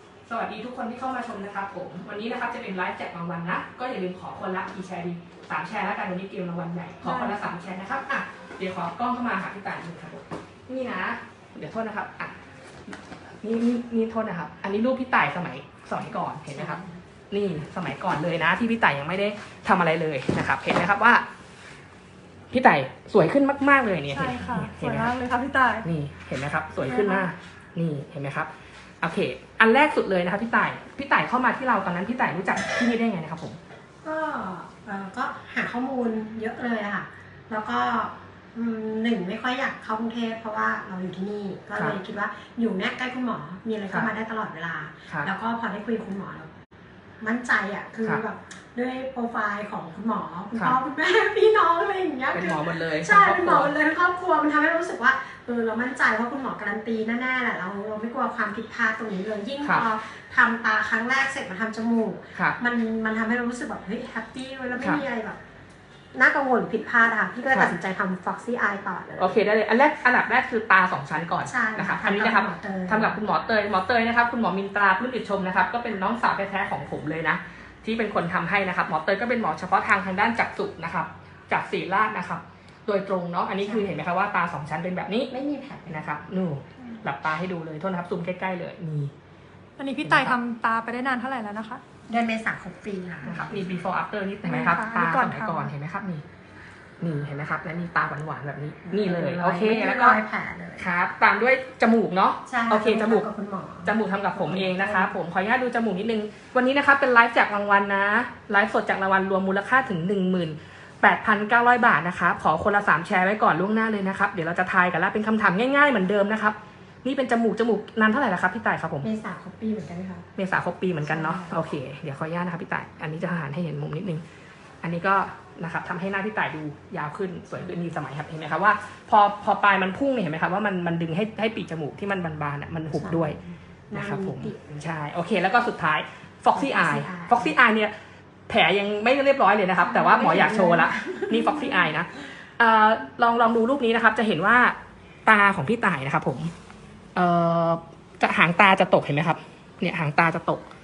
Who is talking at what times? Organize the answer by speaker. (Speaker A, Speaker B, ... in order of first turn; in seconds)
Speaker A: 0.3-12.4, 12.9-21.2, 22.5-25.1, 25.8-28.5, 29.0-33.6, 52.3-53.7, 69.2-85.3, 85.9-89.1, 90.0-90.4, 93.2-96.2, 97.0-100.2, 100.8-103.3, 103.8-119.1, 120.4-124.2, 124.8-133.4, 133.9-137.9, 138.5-146.5, 147.2-150.6
Speaker B: 7.0-7.4, 24.1-25.9, 89.8-91.8, 94.4-95.7
Speaker C: 16.5-16.9, 26.8-27.3, 34.0-46.5, 47.2-65.4, 66.1-69.4, 71.5-73.2, 83.6-83.9, 85.3-86.1, 92.1-93.6, 98.9-100.9, 102.5-105.1, 119.0-120.2, 121.0-121.6, 132.9-134.6, 136.5-137.6, 139.8-141.8